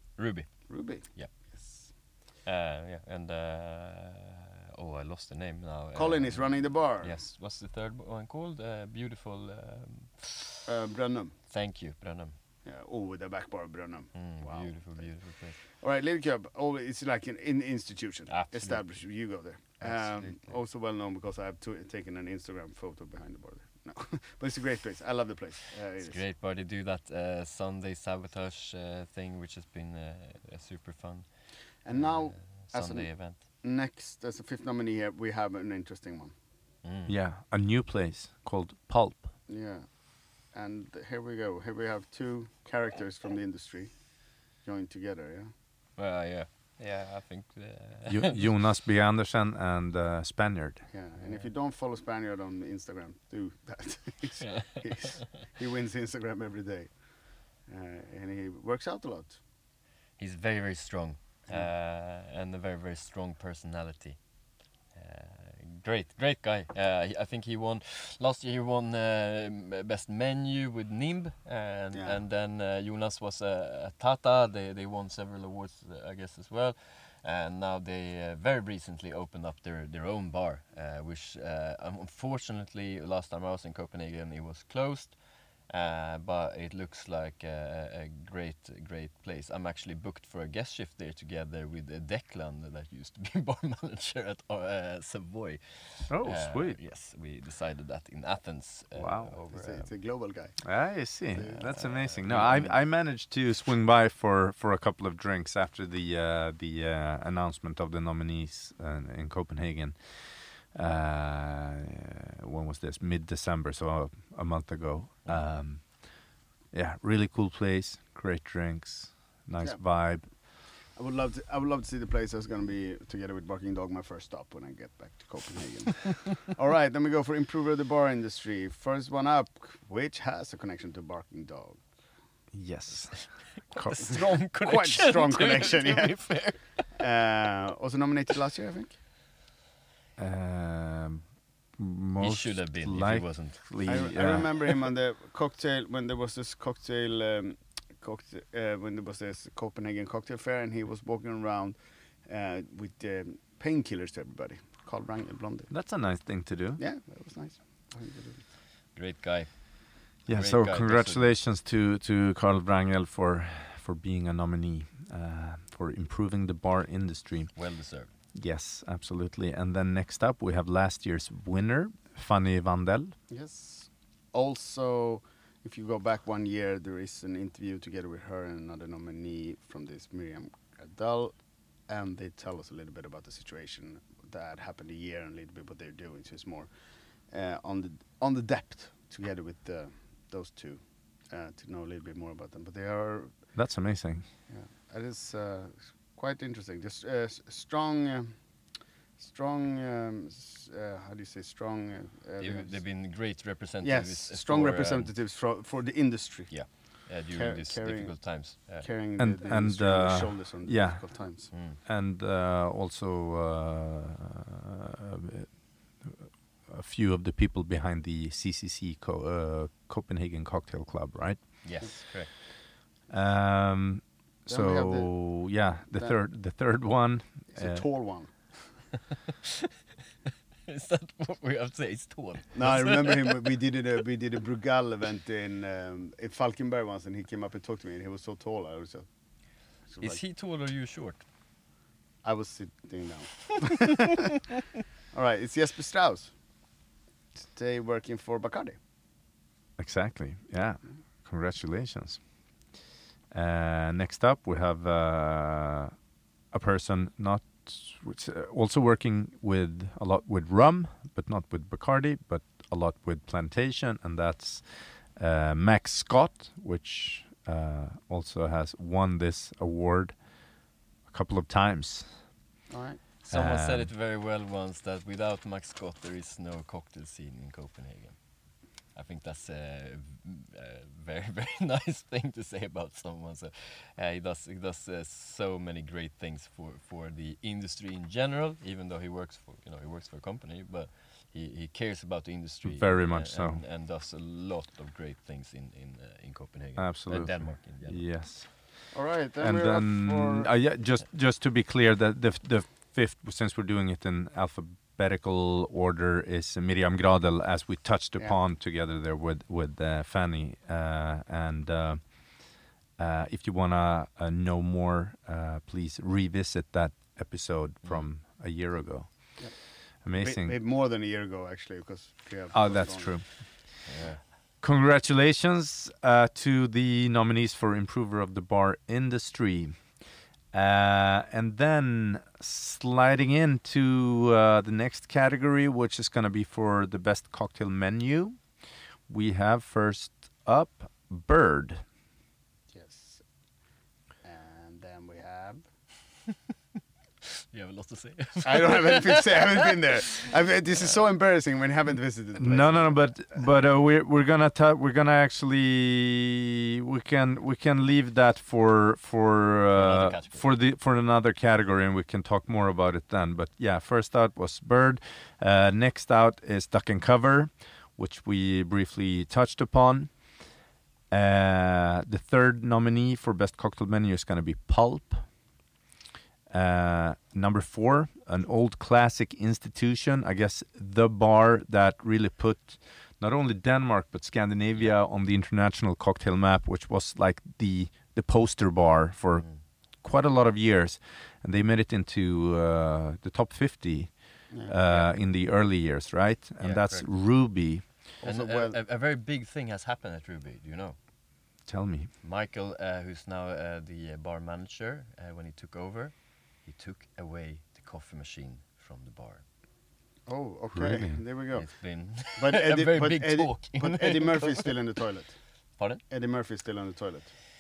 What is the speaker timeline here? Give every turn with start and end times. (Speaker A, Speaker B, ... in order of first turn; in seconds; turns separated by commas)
Speaker A: 0.2-10.7, Speaker B: 0.7-1.9, Speaker B: 6.0-7.2, Speaker B: 10.7-11.4, Speaker A: 11.5-12.4, Speaker B: 12.7-26.2, Speaker A: 14.1-15.6, Speaker A: 18.3-19.0, Speaker A: 19.8-20.6, Speaker A: 26.0-33.4, Speaker B: 31.8-36.4, Speaker A: 36.8-37.1, Speaker C: 37.1-39.4, Speaker B: 39.5-45.5, Speaker A: 46.0-48.5, Speaker C: 48.1-50.9, Speaker B: 50.9-59.4, Speaker A: 51.2-51.5, Speaker A: 54.4-55.1, Speaker A: 60.2-99.9, Speaker B: 71.9-72.2, Speaker C: 96.1-96.8, Speaker C: 98.9-99.3, Speaker B: 99.5-102.8, Speaker C: 100.6-120.3, Speaker A: 101.6-102.4, Speaker B: 119.6-131.9, Speaker C: 132.5-134.0, Speaker A: 133.1-136.9, Speaker B: 134.0-139.0, Speaker C: 140.2-144.5, Speaker A: 142.2-144.4, Speaker B: 143.8-155.8, Speaker C: 155.7-156.8, Speaker B: 156.8-158.5, Speaker A: 158.9-161.4, Speaker C: 160.3-173.2, Speaker A: 167.6-168.1, Speaker B: 173.3-193.6, Speaker C: 193.6-194.3, Speaker B: 194.5-198.5, Speaker B: 199.2-203.3, Speaker A: 202.4-205.1, Speaker B: 203.8-211.5, Speaker A: 206.5-208.9, Speaker C: 209.2-222.1, Speaker A: 211.5-211.8, Speaker A: 221.6-222.3, Speaker C: 223.1-227.9, Speaker B: 224.5-226.2, Speaker B: 227.5-228.9, Speaker A: 230.7-233.5, Speaker B: 232.6-240.2, Speaker A: 240.0-241.2, Speaker B: 242.2-244.4, Speaker B: 245.1-246.4, Speaker B: 247.4-248.8, Speaker C: 249.8-252.3, Speaker C: 253.3-256.0, Speaker C: 256.5-272.3, Speaker B: 272.7-273.0, Speaker A: 273.2-298.1, Speaker C: 273.3-273.9, Speaker C: 292.6-293.6, Speaker C: 296.8-320.6, Speaker B: 298.9-300.5, Speaker A: 317.8-318.1, Speaker B: 319.4-323.5, Speaker C: 322.5-341.8, Speaker A: 323.9-324.2, Speaker B: 342.7-343.2, Speaker B: 344.2-345.6, Speaker A: 347.5-349.7, Speaker B: 348.4-353.4, Speaker C: 352.4-370.6, Speaker A: 359.7-360.5, Speaker C: 371.1-375.4, Speaker C: 376.5-398.0, Speaker A: 389.4-389.6, Speaker B: 394.5-394.8, Speaker A: 394.9-395.1, Speaker A: 396.6-397.4, Speaker B: 398.2-398.8, Speaker A: 398.2-401.0, Speaker C: 401.6-402.1, Speaker A: 402.2-409.4, Speaker B: 410.3-417.3, Speaker C: 410.7-411.3, Speaker A: 411.5-414.9, Speaker A: 415.8-416.0